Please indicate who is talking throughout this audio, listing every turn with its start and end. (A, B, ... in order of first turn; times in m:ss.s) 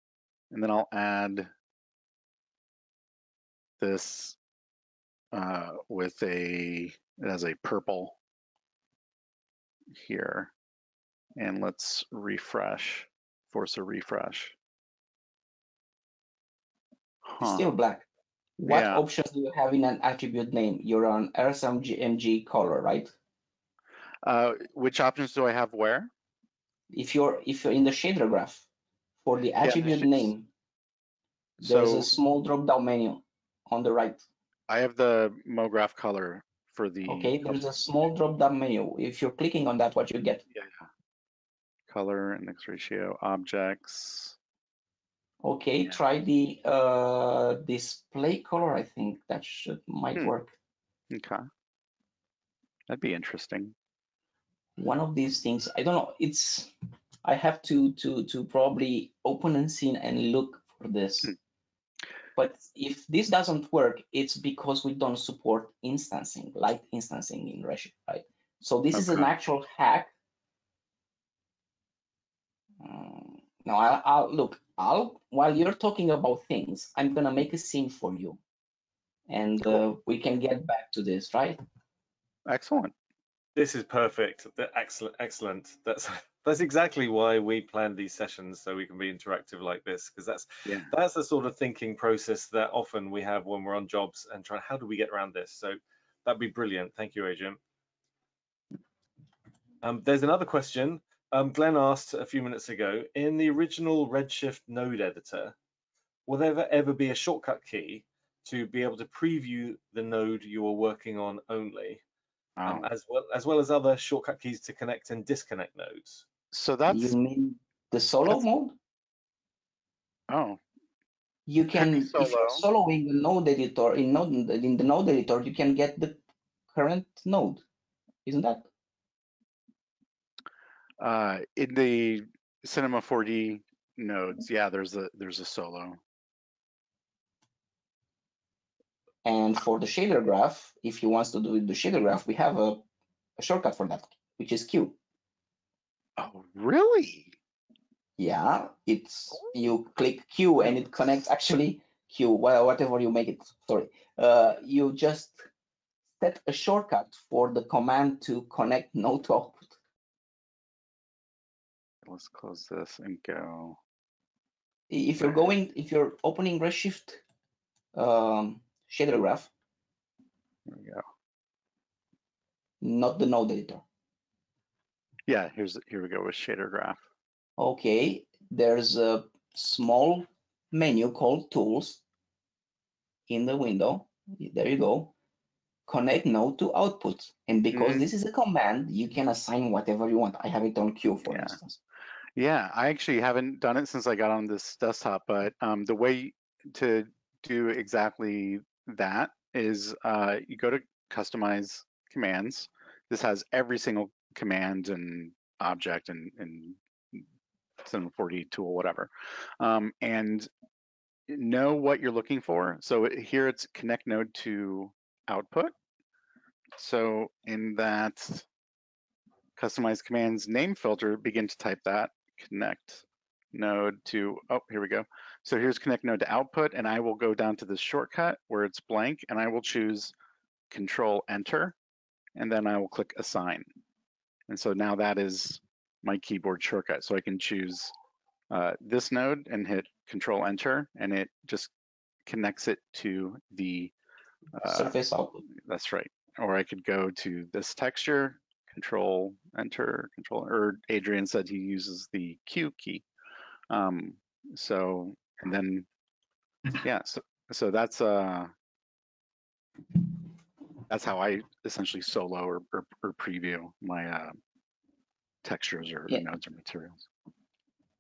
0:00.5-0:01.5 A
0:03.8-0:04.4 A
0:05.3-0:08.2 A
0:09.9-0:10.5 A
0:11.4-0:14.5 A
0:17.2-0:17.6 A
0:17.4-0:18.1 B
0:18.6-0:23.1 B
0:18.7-0:19.0 A
0:24.2-0:26.1 A
0:26.9-0:28.6 B
0:29.2-0:30.5 B
0:29.6-0:30.3 A
0:31.6-0:34.2 B
0:31.6-0:32.1 A
0:34.7-0:37.6 A
0:37.1-0:40.4 B
0:40.5-0:40.8 A
0:41.9-0:44.4 A
0:45.4-0:50.5 B
0:51.1-0:51.4 A
0:52.9-0:53.7 A
0:54.8-0:56.7 B
0:57.2-1:01.3 B
1:02.4-1:10.1 B
1:08.9-1:09.3 A
1:12.8-1:18.4 B
1:19.3-1:21.6 B
1:22.4-1:22.9 A
1:23.6-1:37.6 C
1:39.8-1:45.5 C
1:46.3-1:52.0 C
1:52.6-1:52.9 A
1:52.6-1:56.2 C
1:56.5-1:57.1 A
1:56.9-1:58.8 B
2:00.3-2:00.6 A
2:01.5-2:06.2 B
2:01.7-2:02.6 A
2:06.7-2:07.6 B
2:08.2-2:08.7 B
2:11.0-2:16.0 A
2:19.2-2:22.8 B
2:23.4-2:25.0 B
2:26.2-2:27.3 A
2:28.2-2:35.4 B
2:36.2-2:39.7 B
2:42.0-2:43.8 A
2:44.9-2:47.2 B
2:47.9-2:49.5 B
2:50.7-2:51.0 A
2:52.8-2:53.8 B
2:55.3-2:57.0 A
2:57.6-3:02.0 B
3:03.3-3:05.1 B
3:05.9-3:11.8 B
3:07.7-3:08.0 A
3:11.3-3:11.6 A
3:12.3-3:27.2 A
3:27.8-3:30.5 A
3:31.3-3:35.7 A
3:36.8-3:38.4 A
3:39.6-3:50.1 A
3:50.7-3:51.7 A
3:52.4-3:53.6 A
3:54.5-3:57.9 A
3:58.5-4:01.7 A
4:02.2-4:03.9 A
4:04.6-4:04.9 A
4:04.6-4:05.4 B
4:05.6-4:13.0 A
4:13.7-4:15.8 A
4:16.8-4:18.5 A
4:20.9-4:24.3 A
4:25.4-4:27.0 A